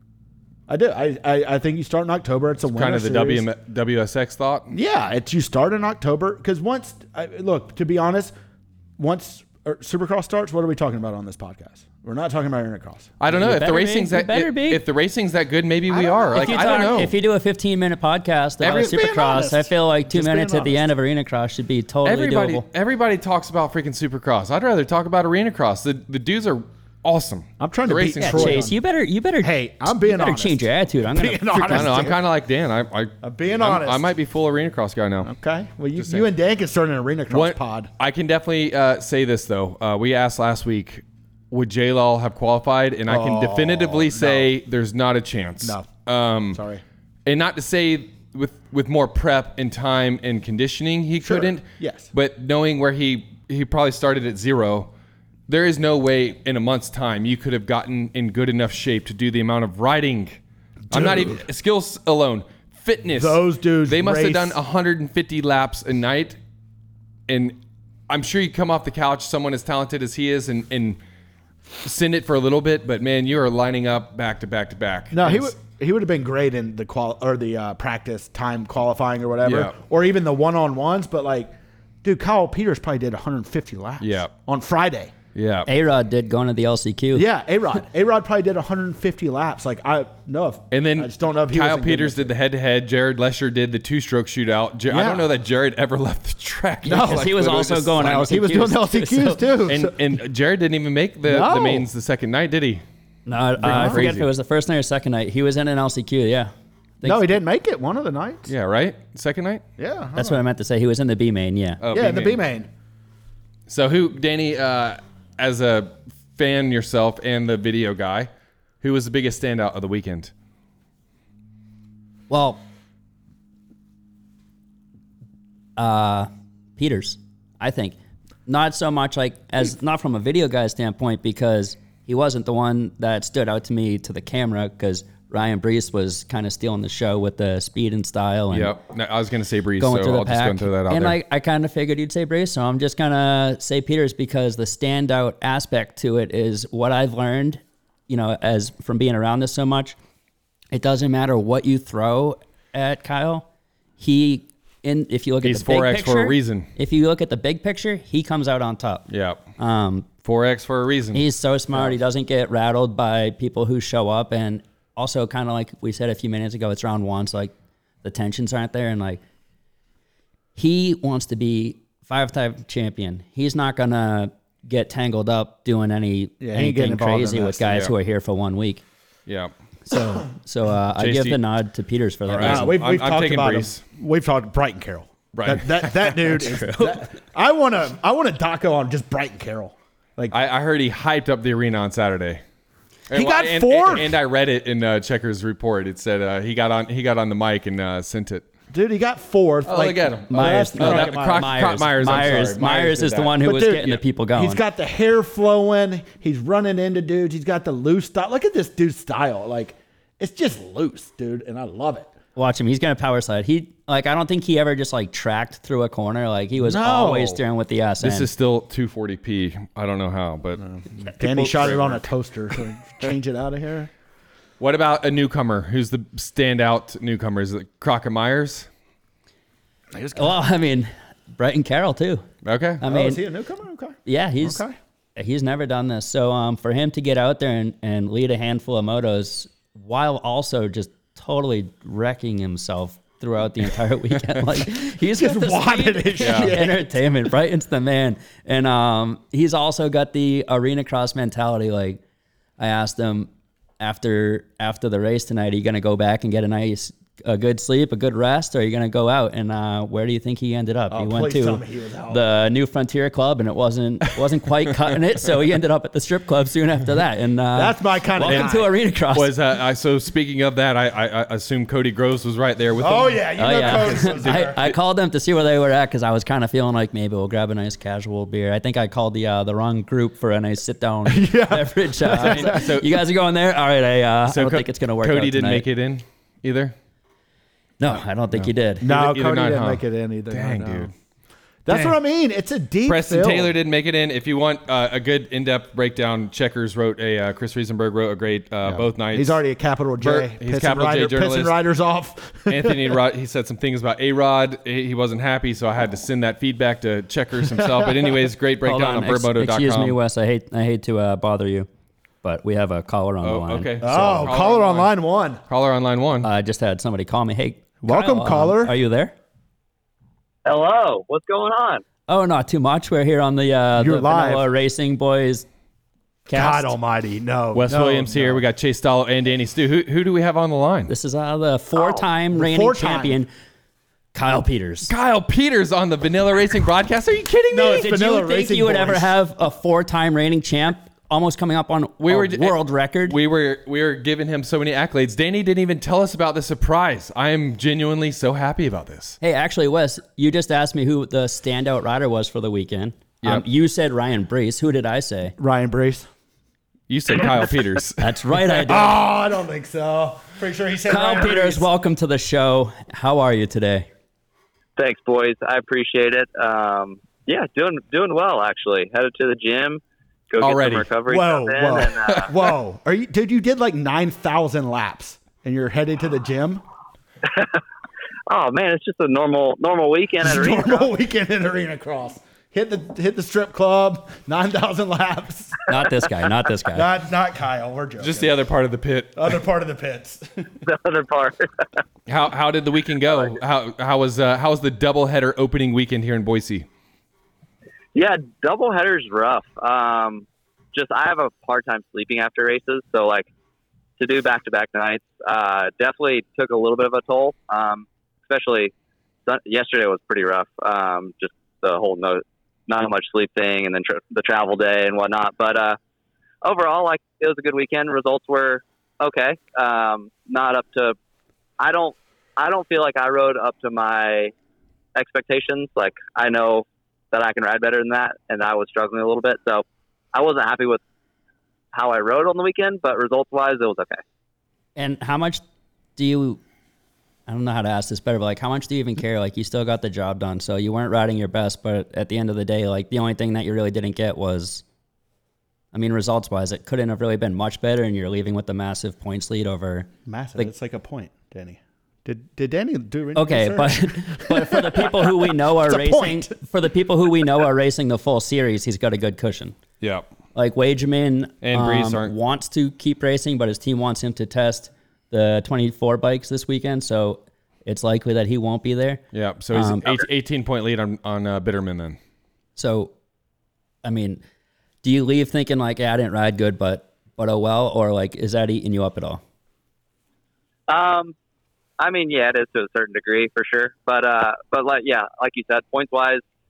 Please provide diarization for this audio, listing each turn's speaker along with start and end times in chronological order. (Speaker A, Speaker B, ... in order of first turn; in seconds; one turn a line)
Speaker A: 0.7-3.5
Speaker B: 2.7-4.7
Speaker A: 4.7-8.3
Speaker A: 9.0-13.1
Speaker B: 13.2-17.1
Speaker C: 13.3-14.8
Speaker A: 15.9-17.1
Speaker C: 16.3-22.6
Speaker A: 18.6-20.9
Speaker B: 22.0-28.6
Speaker A: 27.6-28.8
Speaker C: 28.2-32.1
Speaker A: 29.4-32.2
Speaker B: 31.7-35.3
Speaker A: 33.2-34.1
Speaker A: 35.2-37.9
Speaker B: 36.0-36.3
Speaker B: 37.3-46.6
Speaker A: 43.1-44.5
Speaker A: 45.6-45.9
Speaker A: 46.5-46.8
Speaker B: 47.2-54.9
Speaker A: 51.2-52.1
Speaker B: 55.5-66.4
Speaker A: 60.9-61.4
Speaker A: 63.1-64.6
Speaker B: 67.3-67.6
Speaker B: 68.1-71.0
Speaker B: 71.8-75.5
Speaker A: 75.1-81.5
Speaker B: 79.4-79.7
Speaker A: 82.0-85.1
Speaker B: 84.0-84.3
Speaker B: 85.3-85.7
Speaker C: 85.7-87.3
Speaker A: 87.1-92.3
Speaker B: 90.7-98.1
Speaker A: 94.9-95.3
Speaker A: 96.8-100.0
Speaker C: 96.9-99.6
Speaker B: 99.7-102.8
Speaker A: 101.2-101.9
Speaker C: 103.2-107.4
Speaker B: 103.6-104.3
Speaker A: 103.6-104.1
Speaker A: 107.0-108.5
Speaker B: 108.5-109.6
Speaker A: 109.8-110.4
Speaker C: 110.2-111.8
Speaker B: 111.8-112.4
Speaker A: 111.9-112.7
Speaker B: 113.7-118.3
Speaker B: 118.8-120.3
Speaker C: 122.3-122.6
Speaker C: 125.8-128.0
Speaker C: 128.5-138.7
Speaker B: 138.5-141.1
Speaker C: 139.8-149.9
Speaker C: 150.7-153.4
Speaker C: 154.0-160.1
Speaker B: 155.4-156.7
Speaker B: 159.1-159.4
Speaker B: 160.2-161.2
Speaker C: 161.1-169.2
Speaker C: 170.6-178.8
Speaker A: 176.4-177.8
Speaker B: 179.3-179.5
Speaker C: 179.8-182.7
Speaker B: 181.0-181.4
Speaker B: 182.3-183.8
Speaker A: 182.4-190.3
Speaker B: 185.3-186.3
Speaker C: 186.3-187.0
Speaker B: 190.3-192.4
Speaker B: 193.1-198.4
Speaker A: 193.1-194.2
Speaker A: 198.7-202.4
Speaker B: 199.6-203.3
Speaker C: 200.3-204.6
Speaker A: 203.4-212.1
Speaker C: 212.3-218.3
Speaker A: 216.6-217.4
Speaker B: 218.0-220.6
Speaker A: 220.7-223.9
Speaker C: 221.2-221.9
Speaker B: 224.6-228.7
Speaker A: 229.9-230.3
Speaker C: 230.1-232.2
Speaker B: 232.4-232.8
Speaker C: 232.8-233.2
Speaker A: 232.8-234.8
Speaker C: 234.1-234.6
Speaker C: 235.2-252.0
Speaker A: 245.2-246.9
Speaker B: 246.2-246.5
Speaker C: 252.6-269.3
Speaker A: 260.9-262.2
Speaker A: 267.5-268.7
Speaker B: 268.2-268.5
Speaker B: 269.1-274.7
Speaker A: 272.8-274.6
Speaker C: 273.4-285.6
Speaker A: 281.1-282.7
Speaker B: 282.1-283.0
Speaker B: 284.3-286.7
Speaker C: 287.8-288.9
Speaker B: 288.3-290.9
Speaker A: 288.8-290.9
Speaker A: 291.6-293.5
Speaker B: 292.9-299.4
Speaker A: 298.6-303.0
Speaker B: 300.0-301.5
Speaker B: 302.5-310.0
Speaker A: 307.5-308.1
Speaker C: 308.6-311.7
Speaker C: 312.2-314.3
Speaker B: 313.2-314.9
Speaker A: 313.8-315.4
Speaker B: 315.5-316.3
Speaker C: 316.2-319.1
Speaker A: 317.8-318.8
Speaker D: 320.4-321.8
Speaker C: 322.1-325.5
Speaker A: 323.8-324.5
Speaker C: 326.3-326.7
Speaker A: 326.3-328.4
Speaker B: 327.5-330.9
Speaker C: 330.9-333.3
Speaker A: 332.3-333.2
Speaker C: 334.1-334.9
Speaker B: 334.9-337.9
Speaker A: 337.5-339.1
Speaker C: 337.7-343.2
Speaker B: 342.0-349.2
Speaker C: 349.2-355.4
Speaker A: 355.4-356.1
Speaker B: 356.9-358.1
Speaker C: 358.0-359.0
Speaker A: 358.6-361.7
Speaker C: 360.9-363.9
Speaker D: 364.8-372.3
Speaker B: 370.4-370.9
Speaker A: 371.1-376.6
Speaker D: 377.3-377.6
Speaker D: 378.3-380.9
Speaker A: 380.2-385.6
Speaker C: 385.7-386.9
Speaker A: 386.7-388.3
Speaker B: 388.0-389.3
Speaker A: 389.1-390.5
Speaker D: 390.6-391.6
Speaker B: 392.1-396.7
Speaker D: 397.9-403.3
Speaker D: 404.0-408.7
Speaker D: 409.3-415.8
Speaker D: 416.4-420.9
Speaker D: 421.6-424.3
Speaker D: 424.9-430.8
Speaker D: 431.7-434.0
Speaker C: 434.8-435.4
Speaker C: 435.9-436.4
Speaker C: 437.3-444.6
Speaker C: 445.7-450.5
Speaker A: 450.1-456.4
Speaker C: 453.1-459.5
Speaker B: 459.8-460.1
Speaker C: 460.3-470.0
Speaker B: 461.4-462.1
Speaker B: 469.1-472.0
Speaker C: 472.6-472.9
Speaker C: 473.8-474.2
Speaker C: 474.8-479.2
Speaker D: 480.7-481.1
Speaker D: 481.8-486.2